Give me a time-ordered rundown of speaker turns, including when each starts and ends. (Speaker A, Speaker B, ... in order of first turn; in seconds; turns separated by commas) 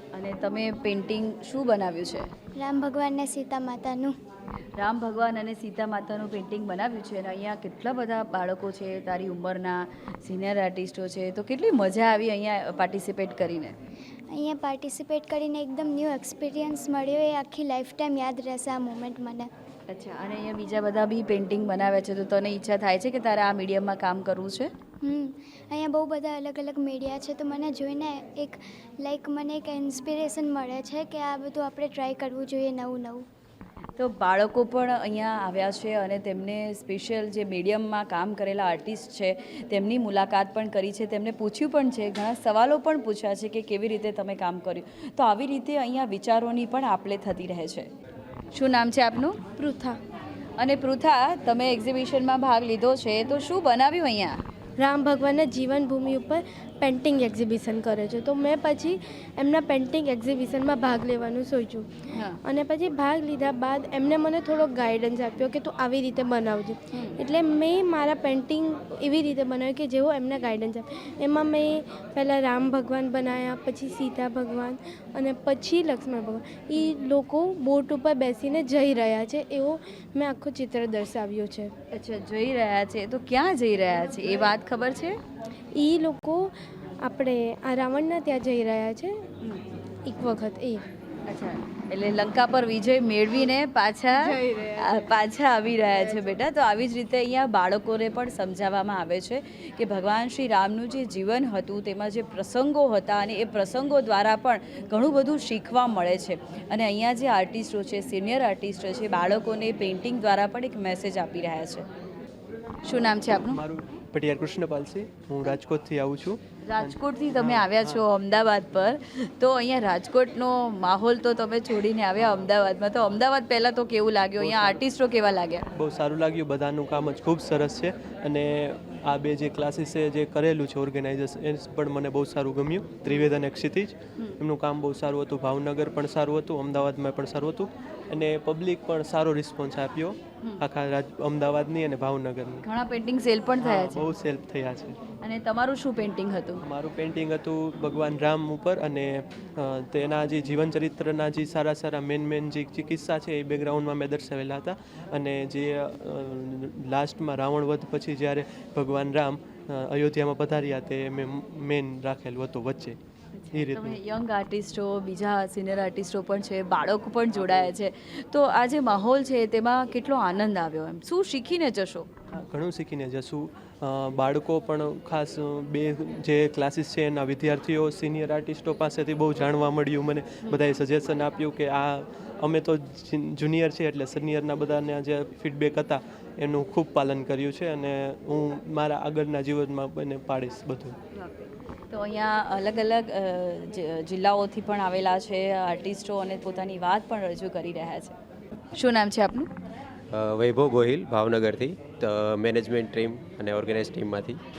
Speaker A: 0.1-2.3, Speaker B: 2.6-4.1, Speaker A: 4.8-13.7, Speaker B: 14.3-19.5, Speaker A: 19.9-24.7, Speaker B: 25.0-33.2, Speaker A: 34.0-47.9, Speaker A: 48.5-49.4, Speaker C: 49.6-50.0, Speaker A: 50.6-54.4, Speaker C: 54.8-61.9, Speaker A: 62.1-62.4, Speaker C: 62.4-81.7, Speaker A: 66.9-67.2, Speaker A: 81.9-85.2, Speaker C: 85.8-86.5, Speaker C: 87.0-89.2, Speaker C: 90.0-90.8, Speaker A: 91.3-111.8, Speaker A: 112.8-113.6, Speaker D: 113.5-118.0, Speaker A: 116.6-125.7, Speaker D: 124.4-124.8, Speaker D: 125.7-142.6, Speaker A: 142.6-144.0, Speaker D: 143.6-145.0, Speaker A: 145.2-146.6, Speaker D: 146.6-163.0, Speaker A: 163.3-172.1, Speaker D: 163.5-164.0, Speaker D: 172.3-191.0, Speaker A: 191.1-198.2, Speaker A: 198.7-199.5, Speaker E: 200.1-204.4